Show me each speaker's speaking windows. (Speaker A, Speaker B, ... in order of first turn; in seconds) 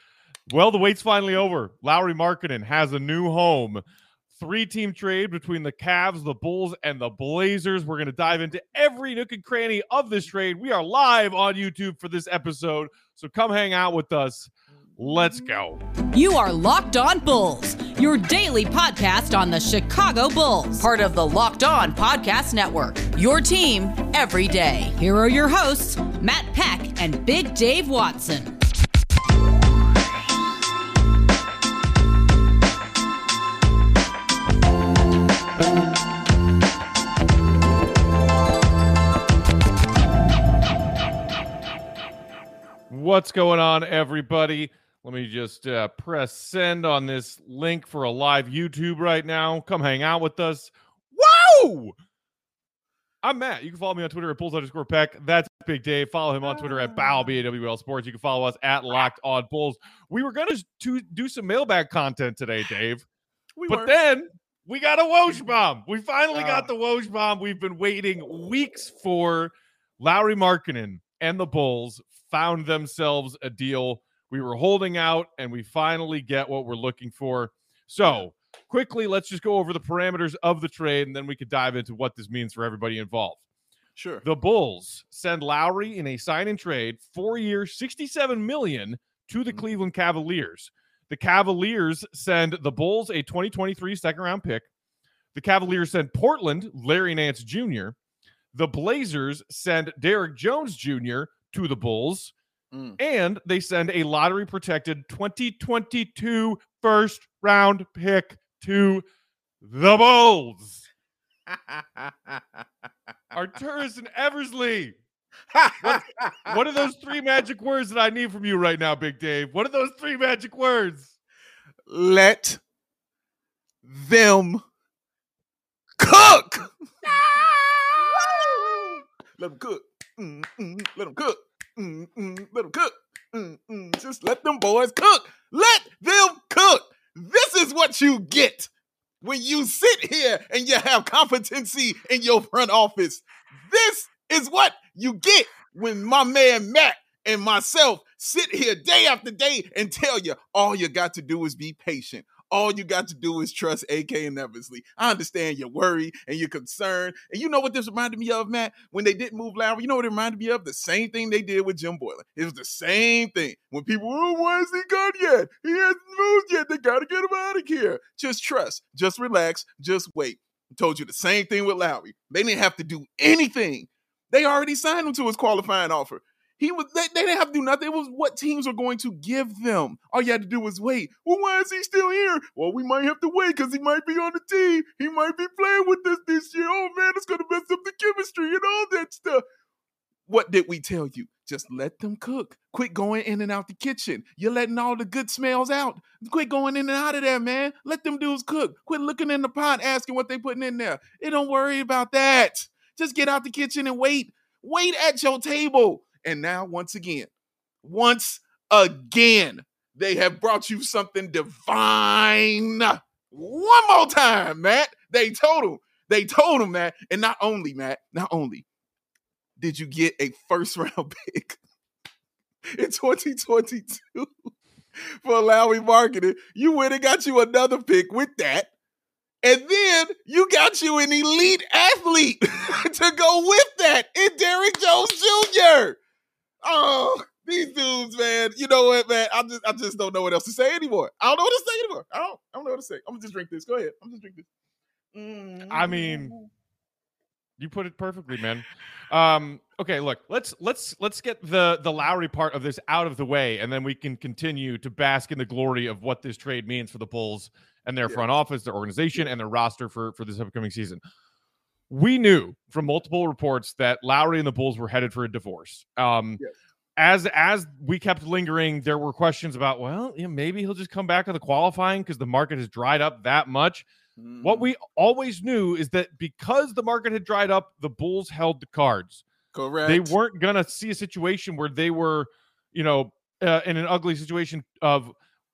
Speaker A: 0.5-3.8, 4.3-15.8, 42.9-51.9, 53.2-63.0, 63.7-83.4, 84.2-94.7, 95.3-97.9, 98.5-102.3, 103.0-109.0, 109.6-110.8, 113.3-115.0, 115.8-121.1, 245.7-246.3, 247.6-261.0, 261.9-266.4, 267.0-273.9, 274.4-279.2, 279.9-285.1
Speaker B: 16.1-28.5
Speaker C: 63.5-63.9, 66.3-66.7, 78.0-78.2, 84.0-84.2, 102.7-103.0, 111.5-112.4, 115.5-116.6, 121.9-122.6, 123.8-124.6, 126.0-138.7, 139.2-189.4, 190.3-207.3, 207.8-218.7, 219.6-221.6, 222.7-224.3, 225.0-228.7, 229.4-236.0, 236.6-244.5, 245.1-246.4, 274.2-274.7, 279.5-280.1